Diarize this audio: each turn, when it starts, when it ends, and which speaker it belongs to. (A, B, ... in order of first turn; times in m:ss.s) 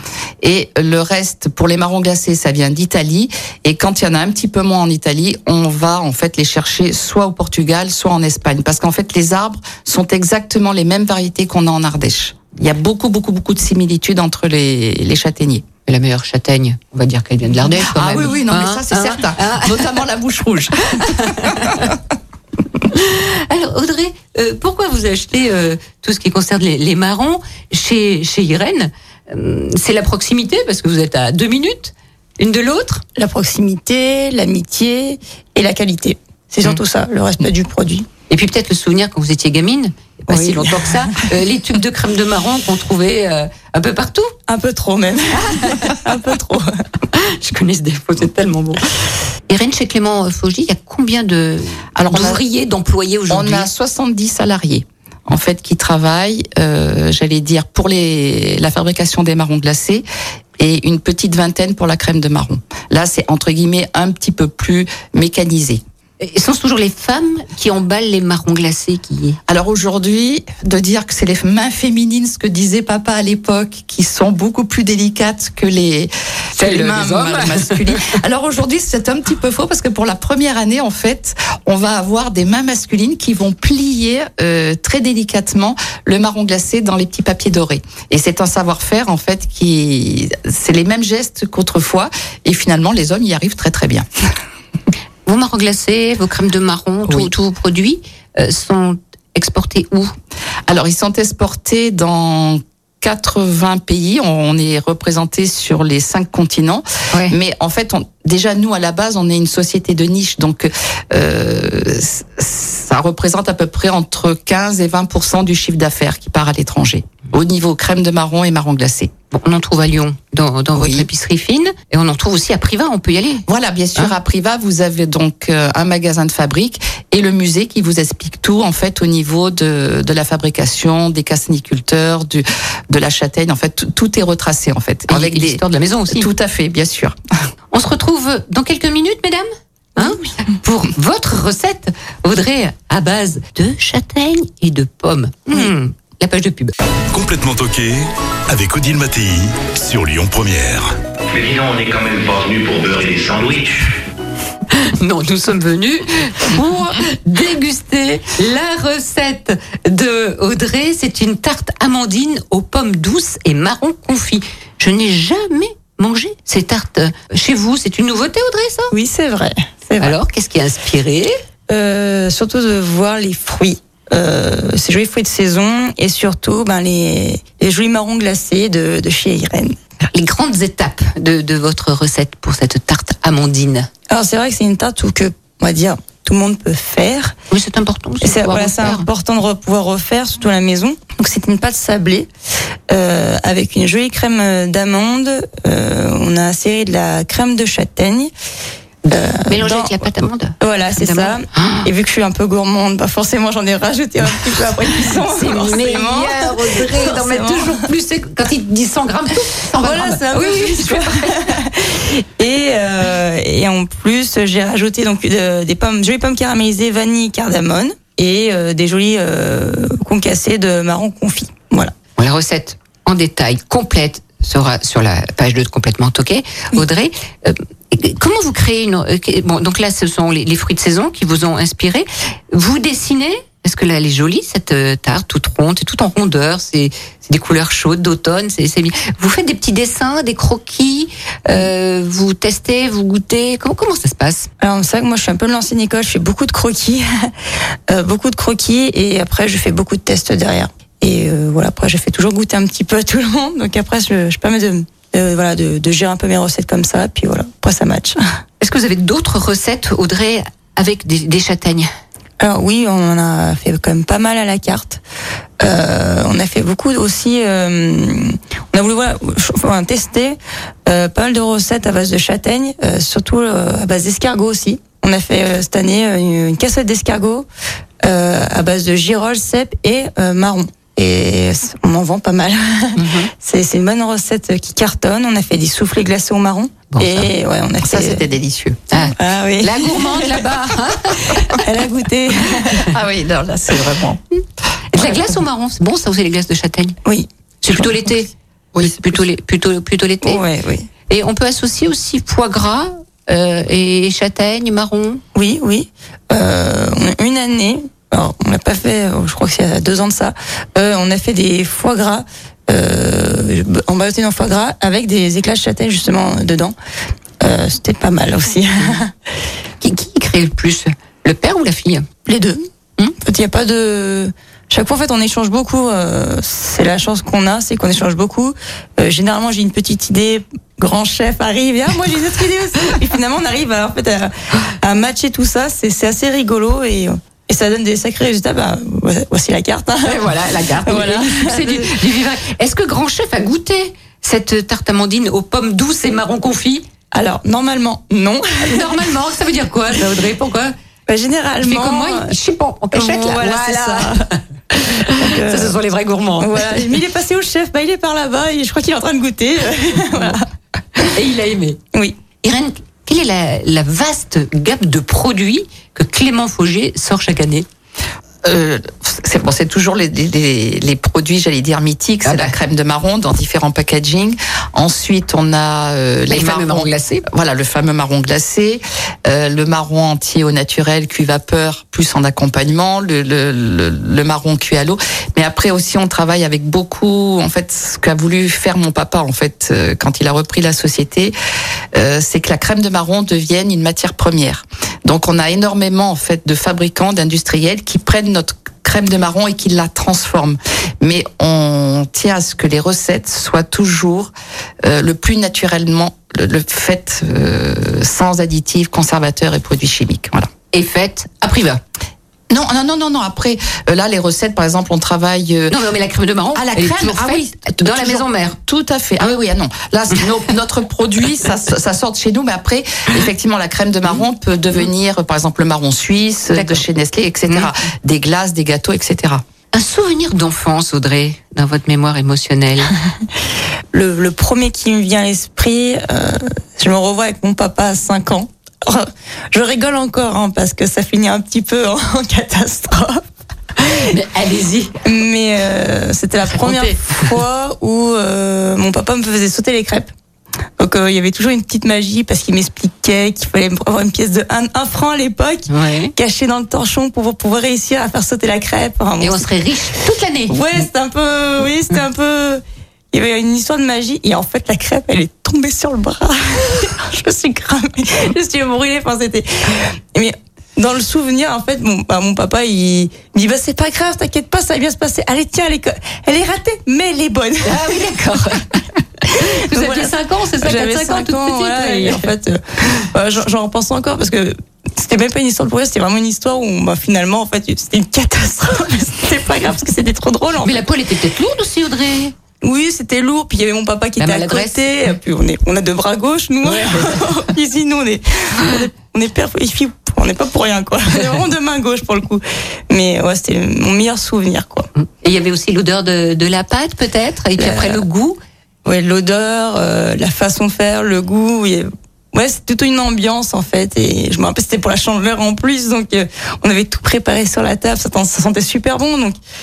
0:00.4-0:15.6 A
0:15.9-0:20.0 B
0:17.6-0:21.9 A
0:20.9-0:21.9 B
0:22.9-0:33.0 B
0:33.2-0:38.1 C
0:38.3-0:44.3 B
0:40.3-0:41.2 C
0:44.5-0:46.8 C
0:45.3-0:46.0 B
0:47.1-0:48.8 B
0:49.5-0:53.7 B
0:52.0-0:52.4 A
0:53.3-1:00.1 A
1:00.6-1:05.8 A
1:06.2-1:09.4 B
1:09.5-1:34.1 A
1:16.5-1:18.2 B
1:35.3-1:40.1 B
1:40.7-1:59.1 A
1:59.3-2:03.4 B
2:00.8-2:01.1 A
2:03.5-2:17.2 A
2:15.1-2:16.3 B
2:17.7-2:26.7 B
2:27.1-2:31.0 D
2:31.3-2:34.0 E
2:34.7-2:48.9 B
2:48.9-2:50.2 C
2:50.0-2:51.4 B
2:51.7-2:59.8 C
3:00.0-3:03.9 B
3:04.1-3:07.4 C
3:07.5-3:09.1 B
3:08.2-3:12.3 C
3:12.9-3:18.3 C
3:19.1-3:20.1 C
3:19.1-3:21.9 B
3:20.6-3:27.8 C
3:25.1-3:31.6 B
3:29.8-3:41.9 C
3:42.2-4:04.5 B
4:04.6-4:07.3 C
4:07.9-4:18.2 C
4:18.6-4:21.9 B
4:22.4-4:25.0 C
4:25.6-4:37.5 C
4:38.0-4:48.2 C
4:43.0-4:43.3 B
4:46.9-4:47.3 B
4:47.8-4:48.8 A
4:48.9-4:51.6 B
4:49.1-4:50.4 C
4:51.6-4:52.9 C
4:52.8-4:54.2 A
4:54.9-4:57.0 B
4:57.6-5:00.4 B
4:58.8-4:59.2 A
5:00.2-5:00.9 C
5:01.1-5:05.2 B
5:05.4-5:16.8 C
5:17.4-5:19.1 C
5:19.8-5:22.1 B
5:22.3-5:22.6 C
5:23.2-5:42.0 C
5:40.0-5:46.9 B
5:47.1-5:49.0 C
5:48.6-5:50.7 B
5:51.1-5:52.4 C
5:51.6-5:57.0 B
5:52.9-5:54.3 C
5:55.2-5:55.8 C
5:56.4-6:01.0 C
6:01.0-6:01.8 B
6:01.9-6:02.2 C
6:02.4-6:07.7 B
6:08.4-6:31.4 A
6:12.2-6:12.6 B
6:16.3-6:17.3 B
6:31.9-6:44.3 A
6:44.8-6:50.5 A
6:50.7-6:51.8 B
6:52.5-6:55.8 A
6:55.7-6:58.6 B
6:56.6-7:09.4 A
7:00.1-7:00.4 B
7:06.5-7:06.8 B
7:09.7-7:12.9 B
7:13.9-7:23.2 C
7:23.8-7:25.0 B
7:25.0-7:30.1 C
7:26.5-7:27.3 B
7:30.8-7:39.5 C
7:35.7-7:36.1 B
7:39.2-7:40.6 B
7:40.5-7:58.0 C
7:57.6-8:02.3 B
7:59.3-8:10.8 C
8:10.6-8:12.3 B
8:12.6-8:24.9 C
8:14.2-8:14.9 B
8:16.7-8:17.3 B
8:25.0-8:28.4 B
8:27.6-8:28.0 C
8:28.8-8:39.4 C